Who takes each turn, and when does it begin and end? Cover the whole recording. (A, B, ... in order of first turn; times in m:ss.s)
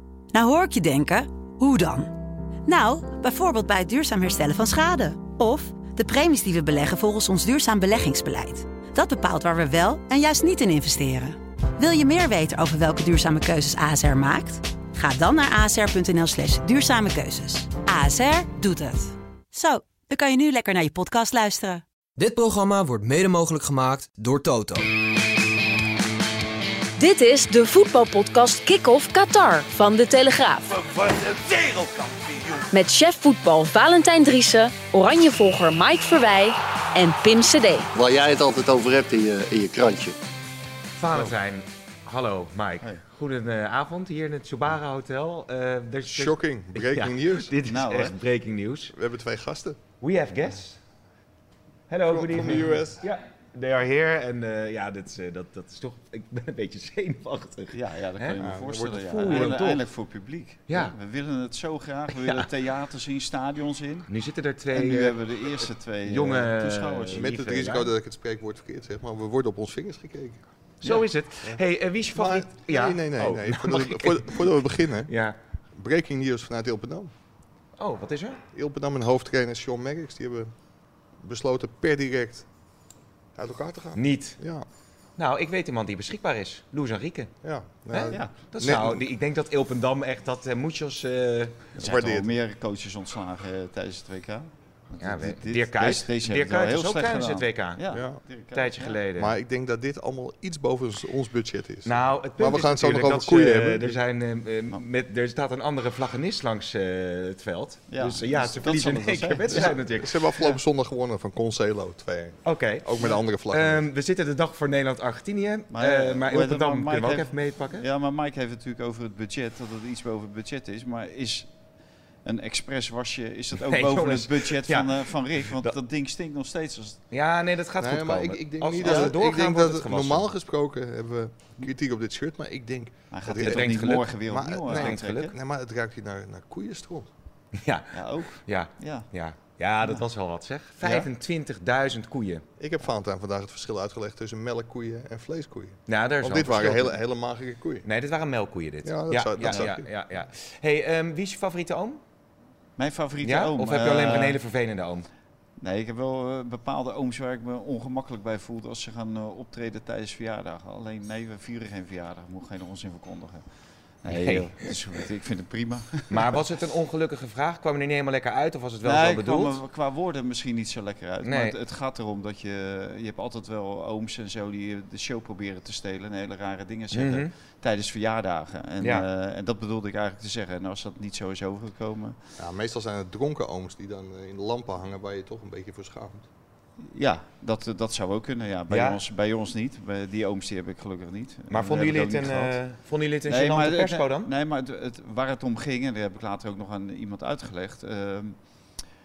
0:00.3-0:02.1 A
0:02.6-0:21.8 A
0:22.2-0:24.9 B
0:27.0-0:30.8 C
0:32.7-0:37.9 C
0:37.9-0:40.1 D
0:41.0-0:48.9 E
0:46.0-0:47.5 F
0:47.7-0:48.2 G
0:48.9-0:49.8 F
0:50.0-0:50.8 E
0:51.9-0:59.8 E
0:52.0-0:53.0 F
0:57.7-1:04.1 G
0:58.4-0:59.6 F
1:00.7-1:01.0 E
1:02.1-1:02.5 E
1:04.1-1:07.9 E
1:04.7-1:07.3 G
1:07.1-1:10.4 F
1:10.8-1:15.4 E
1:12.1-1:15.1 F
1:15.8-1:17.1 F
1:17.8-1:18.4 E
1:18.5-1:20.5 F
1:21.2-1:22.5 F
1:23.3-1:24.6 F
1:23.9-1:24.4 E
1:25.2-1:27.3 E
1:27.4-1:29.0 F
1:27.9-1:31.7 E
1:31.8-1:39.0 G
1:31.8-1:32.3 F
1:35.0-1:37.8 E
1:37.9-1:38.2 F
1:38.5-1:39.3 E
1:39.2-1:44.0 F
1:41.8-1:50.4 E
1:47.9-1:49.8 G
1:49.5-1:53.8 F
1:52.4-1:57.8 E
1:55.7-2:01.5 G
2:02.2-2:07.0 G
2:03.5-2:05.8 E
2:07.1-2:10.3 E
2:07.8-2:17.1 F
2:08.8-2:09.1 G
2:13.1-2:15.3 G
2:13.4-2:14.1 E
2:14.7-2:15.2 E
2:17.5-2:22.4 E
2:17.9-2:19.1 G
2:22.6-2:27.8 F
2:25.9-2:27.0 E
2:27.8-2:32.0 E
2:28.8-2:29.9 F
2:32.8-2:34.4 G
2:33.2-2:35.1 E
2:35.6-2:43.4 G
2:44.0-2:46.3 G
2:44.0-2:44.8 E
2:46.1-2:49.6 E
2:48.8-3:02.2 G
2:51.2-2:51.6 E
2:56.9-2:57.3 E
2:58.8-2:59.0 E
3:02.4-3:06.2 F
3:06.9-3:12.6 G
3:08.7-3:09.0 E
3:11.5-3:14.3 E
3:13.3-3:18.4 G